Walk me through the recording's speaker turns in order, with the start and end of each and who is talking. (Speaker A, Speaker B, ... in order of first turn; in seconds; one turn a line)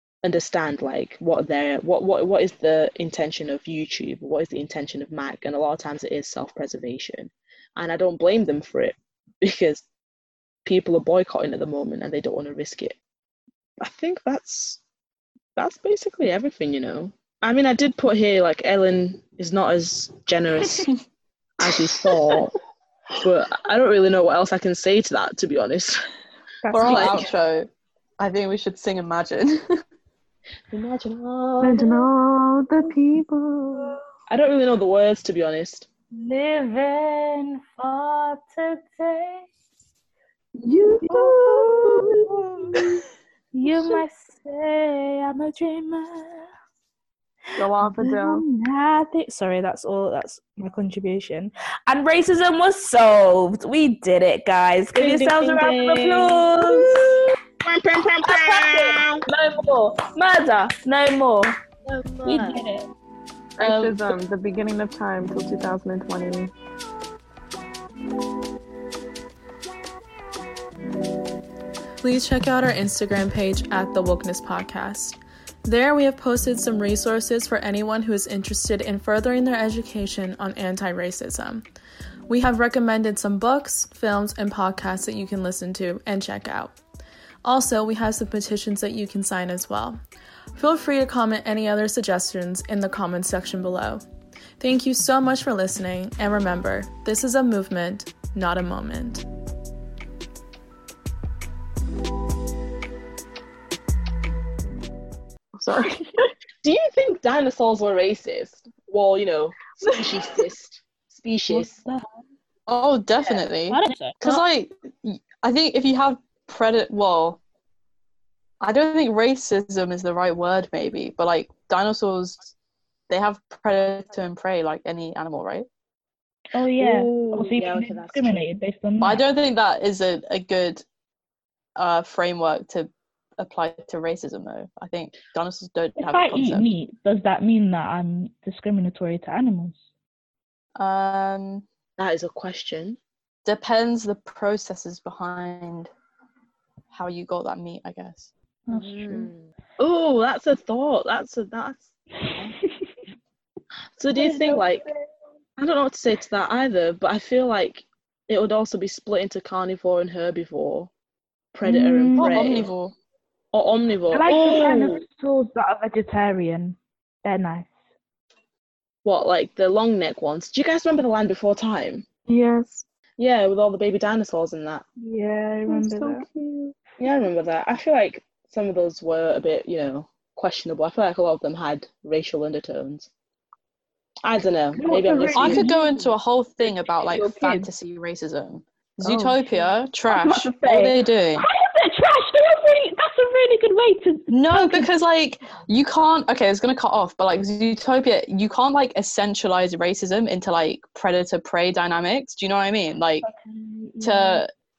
Speaker A: 0.2-9.8
Speaker A: 10.6-12.9
Speaker A: 13.8-14.8
Speaker A: 15.6-20.9
Speaker A: 21.6-22.5
Speaker A: 23.2-26.0
Speaker B: 26.6-27.2
Speaker C: 26.7-29.8
Speaker A: 26.8-27.3
Speaker A: 30.7-32.0
Speaker B: 31.6-34.0
Speaker A: 34.3-35.9
Speaker B: 36.1-39.5
Speaker B: 40.6-43.0
Speaker B: 43.5-46.5
Speaker D: 47.6-48.4
Speaker B: 47.8-57.2
Speaker A: 55.0-59.2
Speaker B: 58.2-61.6
Speaker A: 61.9-62.6
Speaker B: 62.2-62.9
Speaker D: 63.6-66.5
Speaker E: 72.0-81.6
Speaker E: 82.3-86.8
Speaker E: 87.4-90.0
Speaker E: 90.5-94.0
Speaker E: 94.6-99.2
Speaker D: 105.6-106.3
Speaker A: 106.6-111.7
Speaker B: 111.6-112.0
Speaker C: 112.7-117.4
Speaker B: 113.7-114.4
Speaker C: 118.6-122.5
Speaker C: 123.1-125.7
Speaker B: 126.5-129.2
Speaker A: 126.8-128.4
Speaker C: 129.0-130.8
Speaker C: 131.8-136.7
Speaker B: 136.0-139.8
Speaker C: 140.8-141.6
Speaker A: 142.0-143.0
Speaker C: 143.4-145.9
Speaker C: 146.9-148.3
Speaker A: 148.7-152.5
Speaker B: 148.7-149.3
Speaker A: 154.0-154.8
Speaker B: 154.1-154.9
Speaker A: 155.6-160.9
Speaker A: 161.5-162.7
Speaker B: 161.6-162.5
Speaker C: 162.2-162.9
Speaker A: 163.5-165.0
Speaker B: 164.1-167.7
Speaker A: 169.0-172.1
Speaker D: 172.3-172.8
Speaker A: 173.2-174.8
Speaker B: 175.0-176.5
Speaker D: 175.6-176.7
Speaker A: 177.0-183.1
Speaker A: 184.2-185.7
Speaker B: 184.7-186.1
Speaker C: 185.3-191.4
Speaker B: 187.0-187.7
Speaker B: 189.0-194.9
Speaker C: 194.3-203.2
Speaker B: 203.2-204.4
Speaker C: 204.0-204.5